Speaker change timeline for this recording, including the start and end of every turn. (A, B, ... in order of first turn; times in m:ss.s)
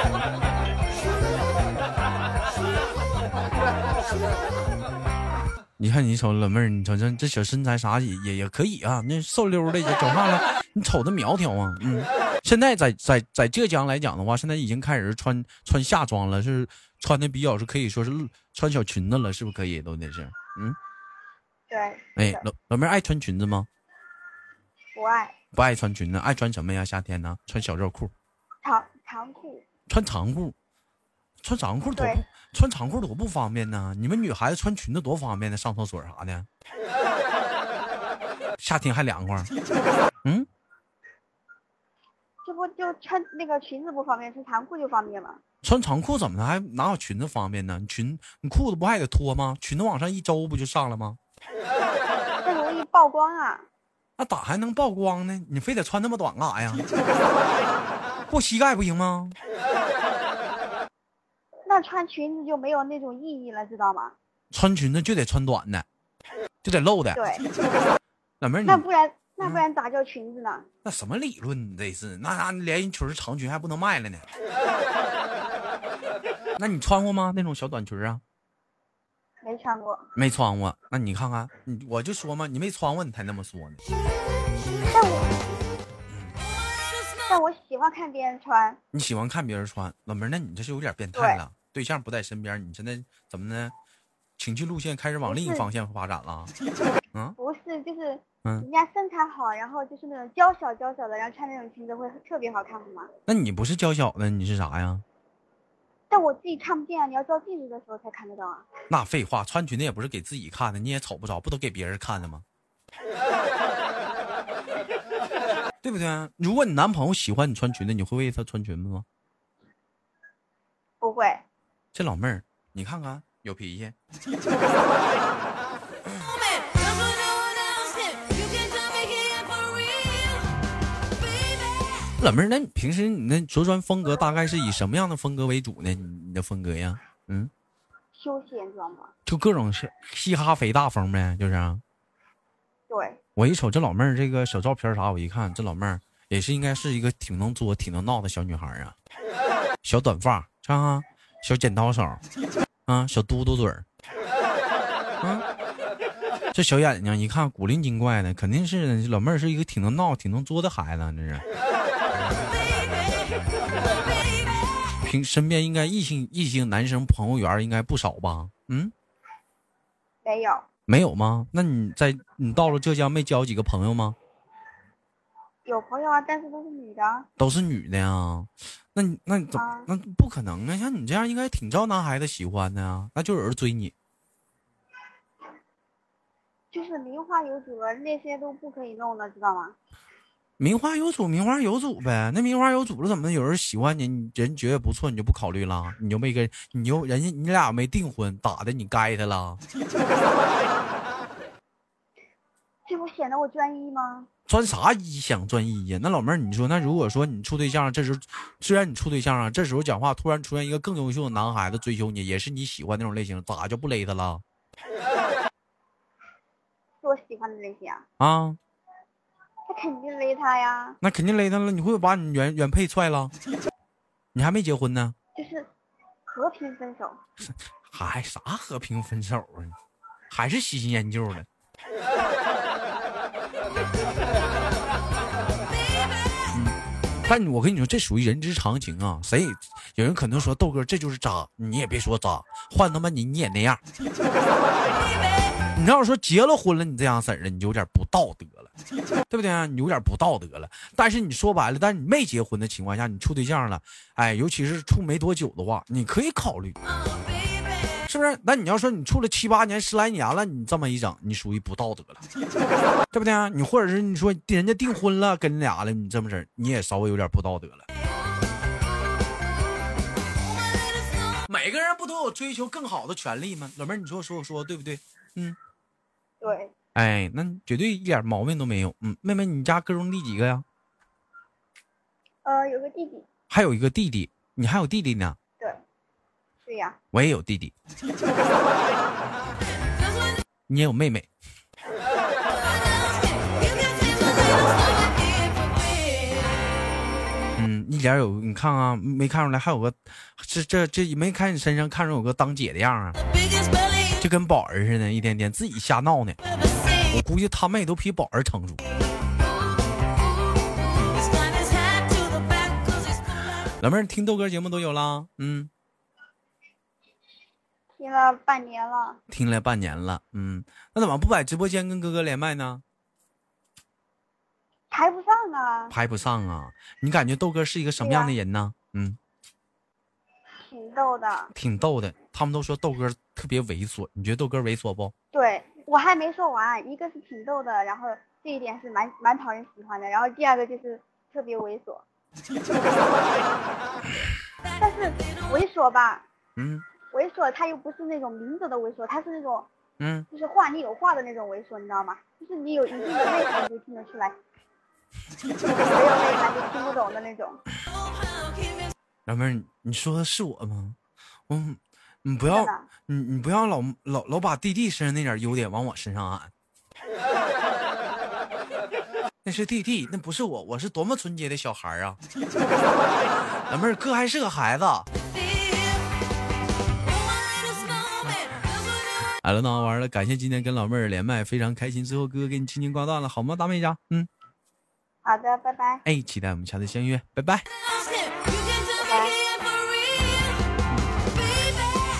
0:05.8-0:20.8 A
0:21.7-0:22.4 B
0:22.2-0:23.7 A
0:25.0-0:25.3 B
0:25.5-0:28.1 A
0:28.6-0:29.6 B
0:29.9-0:30.5 A
0:31.4-0:36.5 A
0:32.0-0:32.2 B
0:38.6-0:39.5 A
0:42.4-0:45.4 B
0:45.6-0:51.2 A
0:52.4-0:53.7 B
0:54.2-0:56.8 A
0:58.3-0:59.4 A
1:01.7-1:04.1 B
1:04.5-1:05.8 A
1:06.6-1:07.2 A
1:07.2-1:07.4 B
1:08.4-1:08.8 A
1:08.6-1:10.6 B
1:10.8-1:14.3 A
1:16.6-1:18.2 A
1:19.4-1:20.1 B
1:20.2-1:23.8 A
1:24.9-1:25.3 B
1:26.1-1:26.4 A
1:27.3-1:28.8 B
1:28.9-1:33.7 A
1:31.1-1:31.4 B
1:34.4-1:36.5 A
1:35.2-1:35.7 B
1:37.4-1:43.1 B
1:43.3-1:45.0 A
1:46.1-1:48.7 B
1:48.9-1:52.4 A
1:55.8-1:59.0 A
2:01.0-2:01.4 B
2:01.9-2:03.9 A
2:12.2-2:17.5 A
2:18.1-2:19.1 B
2:19.2-2:21.8 A
2:22.9-2:23.2 B
2:23.4-2:28.9 A
2:29.8-2:32.2 A
2:32.9-2:33.8 A
2:36.5-2:41.4 A
2:45.0-2:48.9 A
2:50.2-2:50.6 B
2:50.9-2:54.2 A
2:55.6-2:57.3 B
2:57.4-3:03.9 A
2:59.5-2:59.9 B
3:06.7-3:09.8 B
3:10.6-3:19.6 A
3:22.9-3:24.3 B
3:24.5-3:34.4 A
3:37.0-3:38.0 B
3:38.2-3:38.6 A
3:39.7-3:41.0 B
3:41.0-3:43.3 A
3:44.3-3:45.1 A
3:45.3-3:45.7 B
3:46.3-3:47.2 B
3:47.8-3:49.8 A
3:50.3-3:51.5 A
3:56.5-4:03.8 A
4:05.7-4:08.7 A
4:09.3-4:16.8 A
4:18.0-4:22.2 A
4:23.1-4:27.8 A
4:31.5-4:35.6 A
4:36.4-4:36.7 B
4:36.9-4:40.6 A
4:42.4-4:43.2 B
4:43.5-4:45.4 A
4:46.6-4:47.0 B
4:47.1-4:47.7 A
4:50.7-4:51.3 A
4:57.6-5:03.2 A
5:04.2-5:06.4 A
5:07.0-5:08.8 A
5:13.8-5:15.7 A
5:18.0-5:19.2 B
5:19.3-5:22.8 A
5:24.9-5:25.9 B
5:25.9-5:29.2 A
5:28.0-5:28.3 B
5:30.6-5:31.5 B
5:31.5-5:35.1 A
5:35.3-5:42.0 B
5:44.8-5:46.2 B
5:46.6-5:46.8 A
5:47.1-5:49.7 B
5:50.0-5:50.3 A
5:50.3-5:54.3 B
5:55.9-5:57.6 B
5:59.3-6:01.0 A
6:01.5-6:06.5 A
6:02.5-6:02.9 B
6:09.4-6:12.2 A
6:13.7-6:15.1 A
6:19.4-6:24.3 A
6:25.2-6:26.0 B
6:26.0-6:27.6 A
6:29.0-6:29.4 B